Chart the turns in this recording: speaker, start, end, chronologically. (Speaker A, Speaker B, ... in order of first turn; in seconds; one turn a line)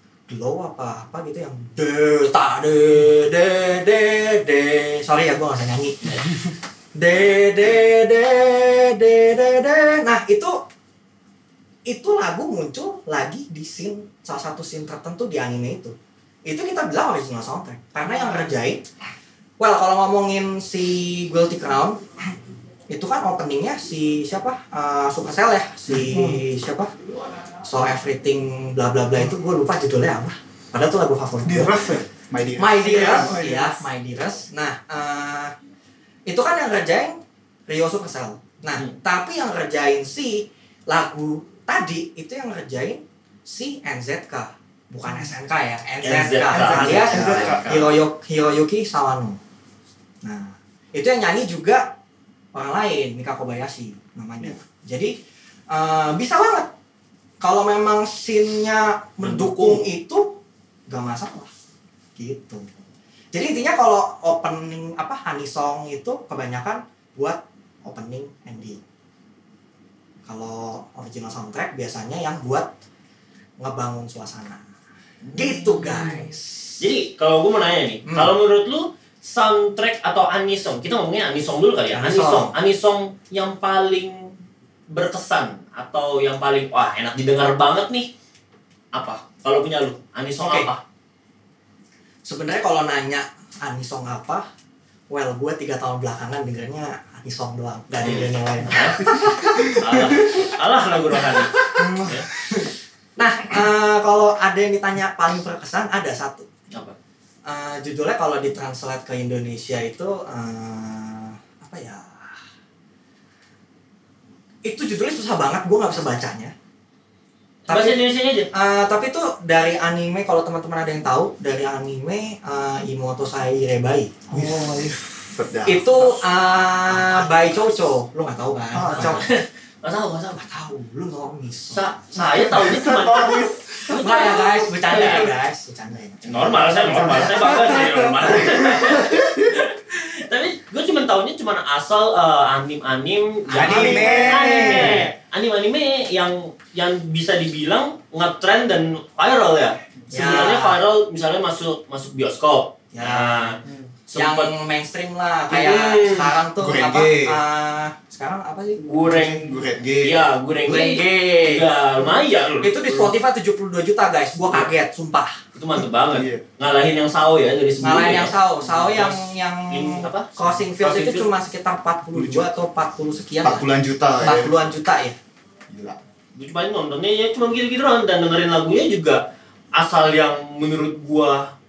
Speaker A: 0.3-6.3
Speaker A: 6.9-10.6
Speaker A: 11.8-18.8
Speaker A: 19.6-22.0
Speaker A: 22.9-26.9
Speaker B: 25.9-26.4
Speaker A: 27.6-31.8
Speaker B: 31.4-32.1
Speaker C: 32.3-33.3
Speaker A: 32.6-35.5
Speaker B: 32.8-33.9
Speaker A: 36.2-49.4
Speaker D: 46.0-48.0
Speaker B: 46.5-47.7
Speaker A: 50.2-51.9
Speaker A: 52.5-55.1
Speaker A: 55.7-56.7
Speaker A: 57.4-61.5
Speaker D: 59.2-59.9
Speaker A: 62.1-62.7
Speaker A: 63.3-68.8
Speaker A: 70.2-72.7
Speaker A: 73.6-74.6
Speaker D: 75.2-76.2
Speaker A: 75.3-76.8
Speaker D: 76.8-84.3
Speaker A: 78.1-78.3
Speaker A: 81.9-82.5
Speaker D: 84.9-88.1
Speaker D: 88.9-90.8
Speaker A: 90.4-90.7
Speaker A: 92.2-94.5
Speaker A: 95.1-100.4
Speaker D: 98.0-99.0
Speaker D: 99.7-102.3
Speaker B: 101.8-102.1
Speaker A: 103.2-106.5
Speaker D: 106.7-107.0
Speaker A: 107.4-112.3
Speaker A: 114.6-116.5
Speaker D: 117.7-118.5
Speaker A: 117.7-118.0
Speaker A: 118.5-124.4
Speaker B: 124.3-125.3
Speaker C: 125.3-126.2
Speaker A: 125.6-129.3
Speaker C: 126.9-127.2
Speaker B: 128.7-129.2
Speaker D: 128.9-130.4
Speaker A: 130.3-132.6
Speaker D: 131.7-135.3
Speaker B: 132.2-135.3
Speaker A: 133.9-137.8
Speaker D: 136.2-154.5
Speaker B: 136.8-138.8
Speaker A: 143.5-145.1
Speaker C: 143.5-145.1
Speaker B: 144.5-144.8
Speaker A: 150.1-150.8
Speaker A: 152.9-153.6
Speaker A: 154.1-159.4
Speaker D: 155.5-156.3
Speaker C: 156.6-157.4
Speaker D: 158.8-163.1
Speaker C: 159.3-160.3
Speaker A: 160.6-165.4
Speaker D: 165.5-171.3
Speaker C: 166.1-166.4
Speaker A: 167.8-173.7
Speaker C: 172.1-172.5
Speaker C: 173.4-174.5
Speaker A: 174.2-175.2
Speaker C: 175.7-176.0
Speaker D: 176.3-179.2
Speaker D: 179.7-181.5